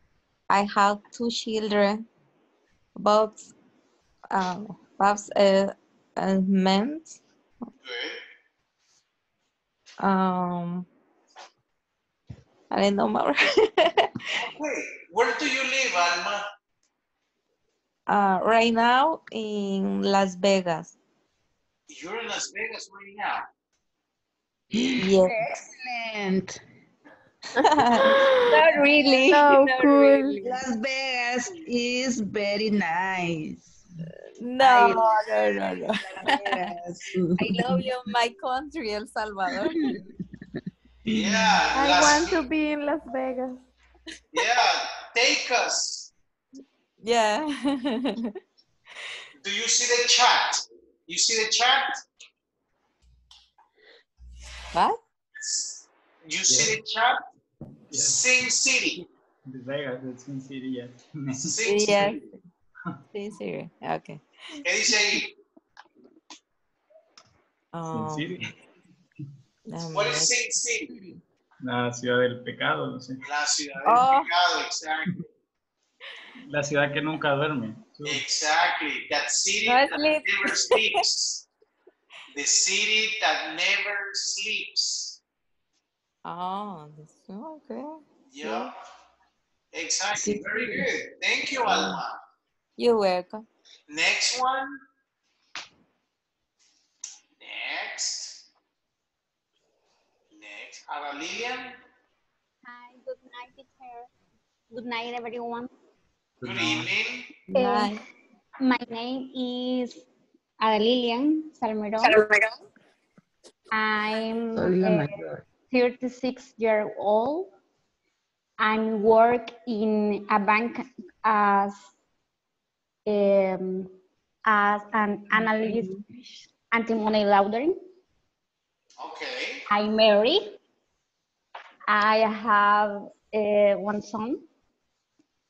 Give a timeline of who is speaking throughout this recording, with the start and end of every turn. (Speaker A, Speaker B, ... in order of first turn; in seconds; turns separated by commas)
Speaker A: 0.5-2.0, Speaker A: 3.0-3.5, Speaker A: 4.3-7.2, Speaker B: 7.8-8.2, Speaker A: 10.0-10.9, Speaker A: 12.7-14.1, Speaker B: 14.3-16.4, Speaker A: 18.1-20.9, Speaker B: 21.9-23.5, Speaker C: 24.7-26.6, Speaker A: 25.0-25.4, Speaker A: 27.6-30.6, Speaker D: 27.9-28.6, Speaker D: 29.2-30.4, Speaker C: 30.4-33.8, Speaker A: 34.4-36.8, Speaker C: 34.6-37.8, Speaker A: 37.4-39.8, Speaker C: 39.5-40.2, Speaker C: 41.1-41.7, Speaker B: 41.1-42.4, Speaker D: 41.7-43.7, Speaker B: 44.3-46.1, Speaker A: 47.0-48.3, Speaker B: 49.4-52.0, Speaker A: 54.7-55.0, Speaker B: 55.4-57.2, Speaker E: 56.5-56.8, Speaker E: 57.9-58.3, Speaker B: 57.9-59.0, Speaker E: 59.0-61.6, Speaker B: 61.4-62.3, Speaker A: 61.6-62.3, Speaker A: 63.1-64.2, Speaker B: 64.7-65.3, Speaker A: 67.7-68.3, Speaker E: 67.9-68.5, Speaker A: 69.7-70.3, Speaker B: 69.9-70.9, Speaker C: 70.9-71.2, Speaker E: 71.6-73.2, Speaker B: 73.2-75.3, Speaker A: 73.8-74.3, Speaker E: 76.5-78.2, Speaker B: 78.0-81.5, Speaker A: 79.6-81.0, Speaker B: 82.3-85.2, Speaker A: 86.2-88.7, Speaker B: 88.3-88.7, Speaker B: 89.7-92.2, Speaker C: 90.2-90.9, Speaker C: 91.7-92.0, Speaker A: 92.8-93.5, Speaker B: 93.9-94.8, Speaker B: 97.4-98.4, Speaker B: 100.3-101.8, Speaker F: 102.7-104.1, Speaker F: 104.7-105.7, Speaker E: 106.4-106.9, Speaker B: 106.4-107.3, Speaker F: 107.5-108.0, Speaker A: 107.5-108.0, Speaker F: 108.6-110.1, Speaker F: 110.6-112.3, Speaker A: 112.0-112.4, Speaker F: 113.7-117.5, Speaker C: 114.5-115.4, Speaker F: 118.6-121.9, Speaker F: 123.1-124.0, Speaker F: 124.5-126.0, Speaker C: 125.3-126.5, Speaker F: 126.7-127.8, Speaker B: 129.0-129.7, Speaker F: 129.7-130.6, Speaker F: 131.9-134.5